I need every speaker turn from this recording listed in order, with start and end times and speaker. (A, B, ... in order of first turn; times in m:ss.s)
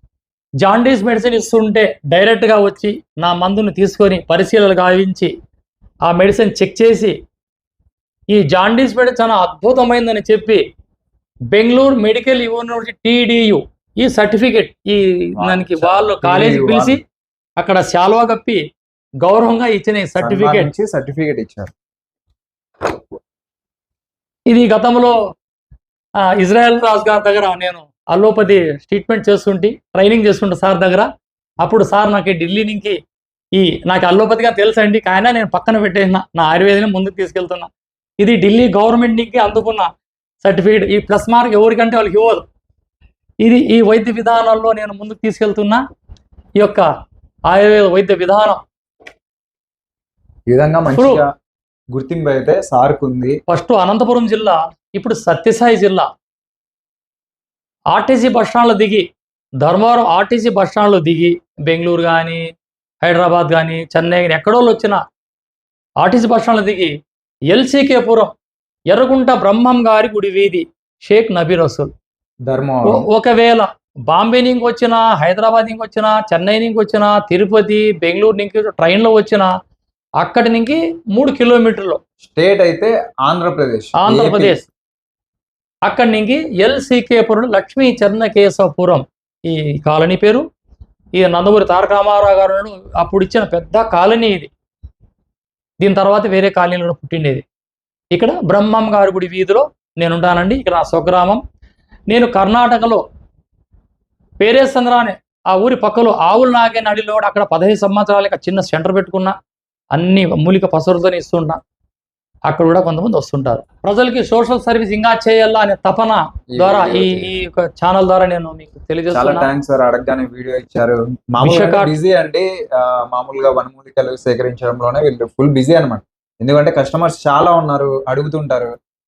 0:00.6-0:05.3 A
0:06.1-0:07.2 A
0:08.3-0:10.6 A
0:11.5-0:17.0 A
0:15.4-0:17.0 B
0:17.6-0:18.6 A
0:19.2-0:20.7 A
0:20.2-0:21.7 B
0:24.5-0:25.2 A
0:26.2-0:31.1 A
0:31.6-0:33.0 A
0:33.5-0:39.9 A
0:40.4-0:42.4 A
0:43.4-0:45.8 A
0:46.6-0:46.9 A
0:47.5-0:48.6 A
0:50.5-0:51.3 B
0:50.9-0:51.2 A
0:51.9-0:53.4 B
0:53.5-0:56.1 A
0:57.9-0:59.0 A
0:59.6-1:02.4 A
1:03.0-1:05.0 A
1:06.0-1:06.9 A
1:07.5-1:08.3 A
1:08.9-1:11.9 A
1:12.5-1:13.1 B
1:12.8-1:19.5 A
1:20.2-1:22.0 A
1:22.2-1:24.6 B
1:24.0-1:24.6 A
1:25.8-1:30.4 A
1:31.2-1:34.5 A
1:35.8-1:37.4 A
1:38.1-1:41.4 A
1:42.1-1:43.0 A
1:44.4-1:49.4 A
1:49.9-1:51.6 A
1:52.5-1:59.5 A
1:56.5-1:57.3 B
1:59.1-2:08.7 B
2:01.4-2:01.9 A